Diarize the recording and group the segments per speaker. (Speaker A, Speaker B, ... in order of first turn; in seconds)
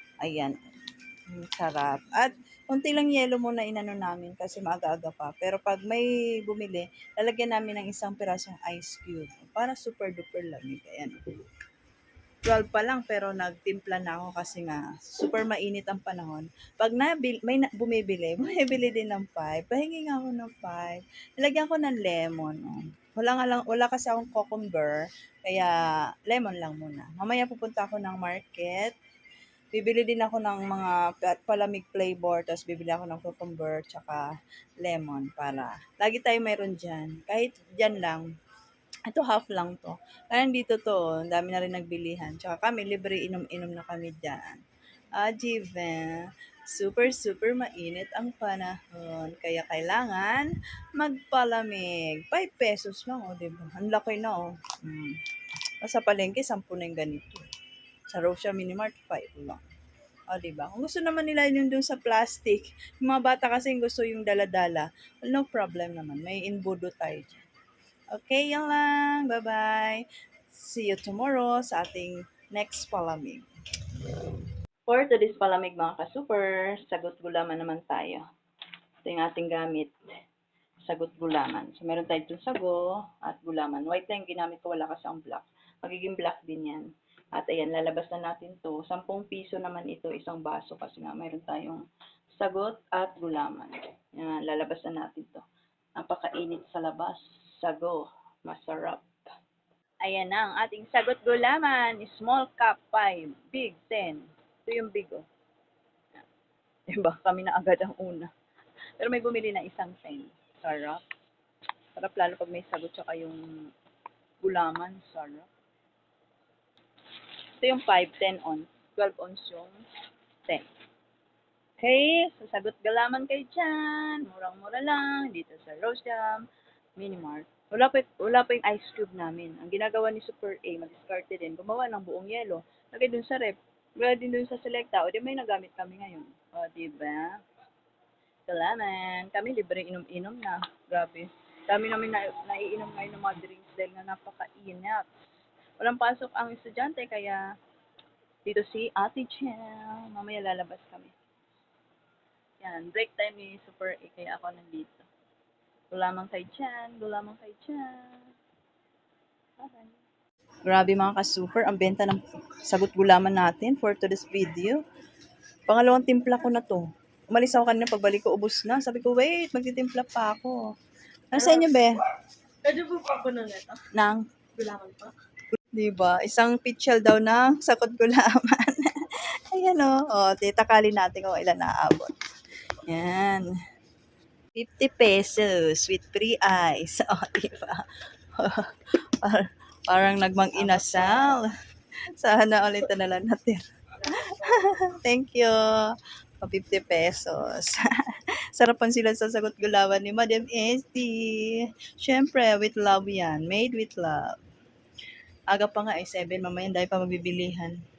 Speaker A: 0.2-0.6, 1.3-11.2, 12.4-28.9, 29.7-34.2, 34.8-38.3, 39.1-44.6, 45.2-46.2, 46.7-55.2, 55.8-57.5, 58.1-59.6, 60.3-67.4, 68.1-73.4, 74.9-78.2, 79.0-79.9, 80.8-91.8, 92.4-95.4, 96.0-99.1, 100.0-105.2, 106.9-108.3, 109.0-111.0, 112.0-113.4, 114.4-115.5, 117.6-119.8, 121.8-126.4, 127.0-137.3, 138.5-145.1, 145.8-147.4, 148.4-151.1, 152.6-155.1, 155.9-158.2, 159.6-160.0, 160.7-164.8, 165.7-170.6, 171.3-172.1, 173.9-174.2, 175.7-182.1, 182.8-183.5, 184.5-187.8, 188.4-191.5, 192.1-195.9, 196.4-204.3, 205.5-207.8
Speaker B: 171.4-171.6, 172.6-173.8, 174.6-175.1, 190.7-191.3, 194.2-194.6